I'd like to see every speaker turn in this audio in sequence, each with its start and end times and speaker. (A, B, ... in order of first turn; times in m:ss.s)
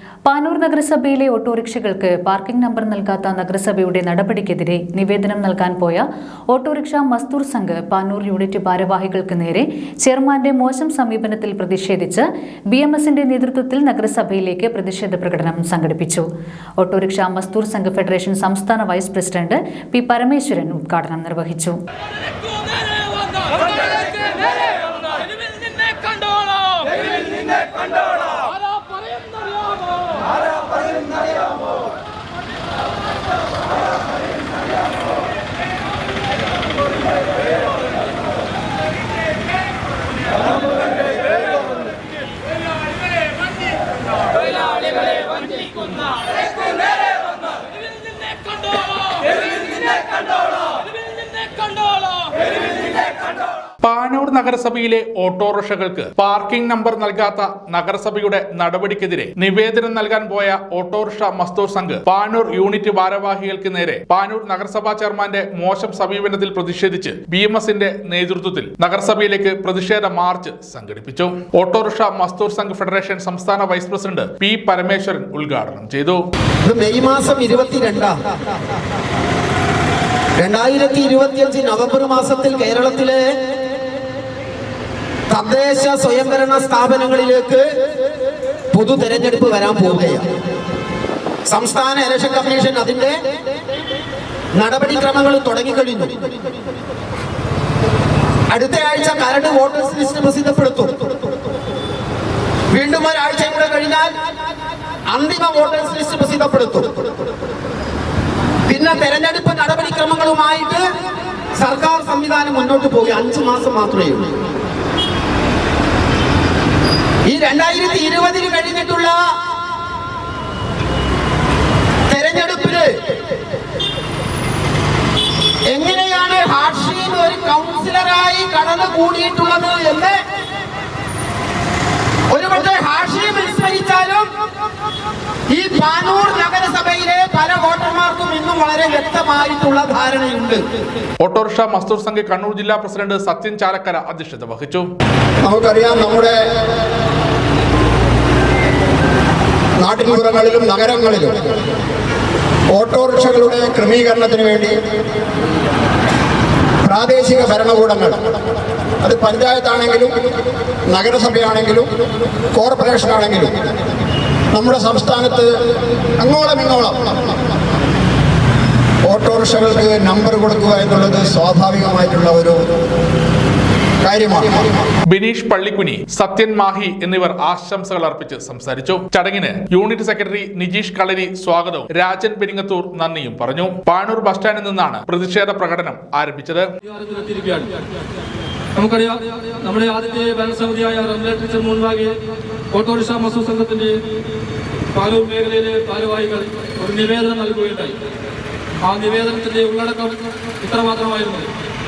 0:00.3-0:16.3 A
0:16.8-0:21.8 A
0:26.2-0:26.9 B
0:53.8-1:16.2 C
1:16.6-1:18.2 D
1:20.4-1:23.3 D
1:25.3-1:27.7 D
1:28.7-1:30.3 D
1:31.5-1:33.2 D
1:34.5-1:36.2 D
1:38.5-1:41.1 D
1:42.7-1:44.2 D
1:45.1-1:47.1 D
1:48.7-1:50.9 D
1:51.6-1:54.4 D
1:57.3-1:59.2 D
2:02.1-2:03.0 D
2:05.7-2:10.2 D
2:12.3-2:14.3 D
2:15.5-2:20.6 D
2:21.2-2:24.9 C
2:25.4-2:26.4 E
2:29.8-2:31.4 E
2:32.7-2:34.8 E
2:36.8-2:38.3 E
2:39.0-2:40.2 E
2:40.9-2:41.9 E
2:42.5-2:43.7 E
2:44.5-2:45.6 E
2:46.2-2:47.1 E
2:49.0-2:52.6 E
2:54.0-2:54.8 E
2:55.1-3:06.7 C
3:06.8-3:07.8 B
3:08.8-3:12.2 B
3:12.7-3:14.0 B
3:14.9-3:18.0 B
3:18.8-3:21.5 B